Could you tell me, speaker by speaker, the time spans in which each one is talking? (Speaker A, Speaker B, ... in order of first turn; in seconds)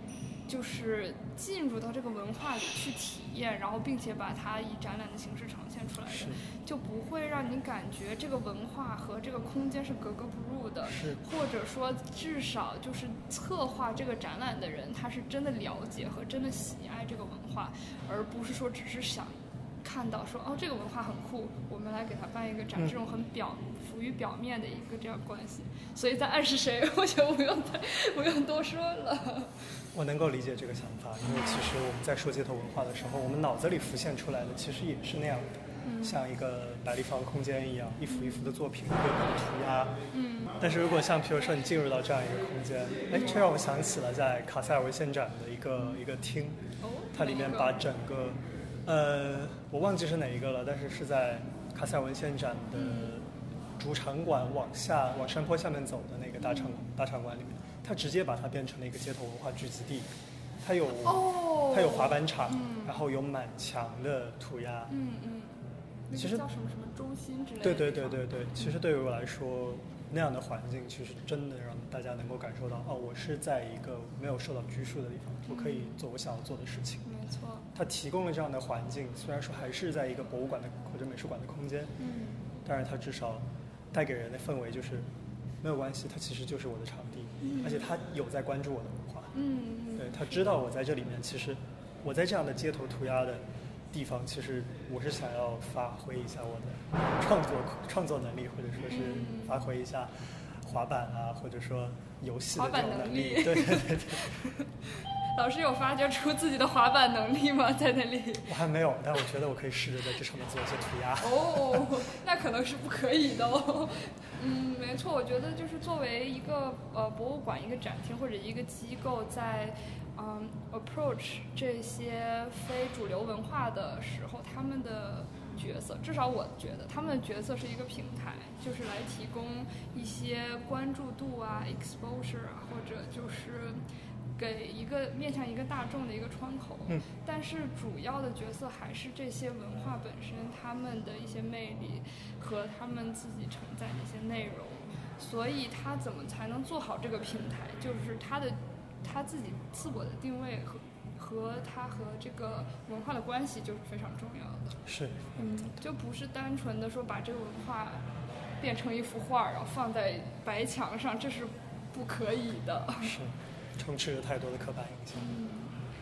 Speaker A: 0.5-29.6, 31.3-31.6, 35.8-36.2, 38.1-38.5, 40.1-40.6, 43.1-43.4, 46.8-47.8, 52.8-53.1, 56.4-56.8, 61.0-63.0, 64.9-68.2, 75.5-76.0, 77.0-77.7, 82.0-82.4, 87.4-87.9, 89.3-90.5, 98.9-99.7, 102.5-104.7, 105.3-108.5, 111.2-133.8, 134.4-154.8, 155.4-158.1, 158.6-163.2, 165.2-165.7
Speaker B: 6.1-6.4, 10.8-11.2, 29.9-40.0, 40.6-46.6, 47.1-60.1, 60.6-64.9, 66.1-66.5, 67.6-77.0, 77.7-81.9, 82.7-85.1, 85.6-89.3, 90.0-104.4, 108.5-111.9, 154.9-155.7, 163.0-165.4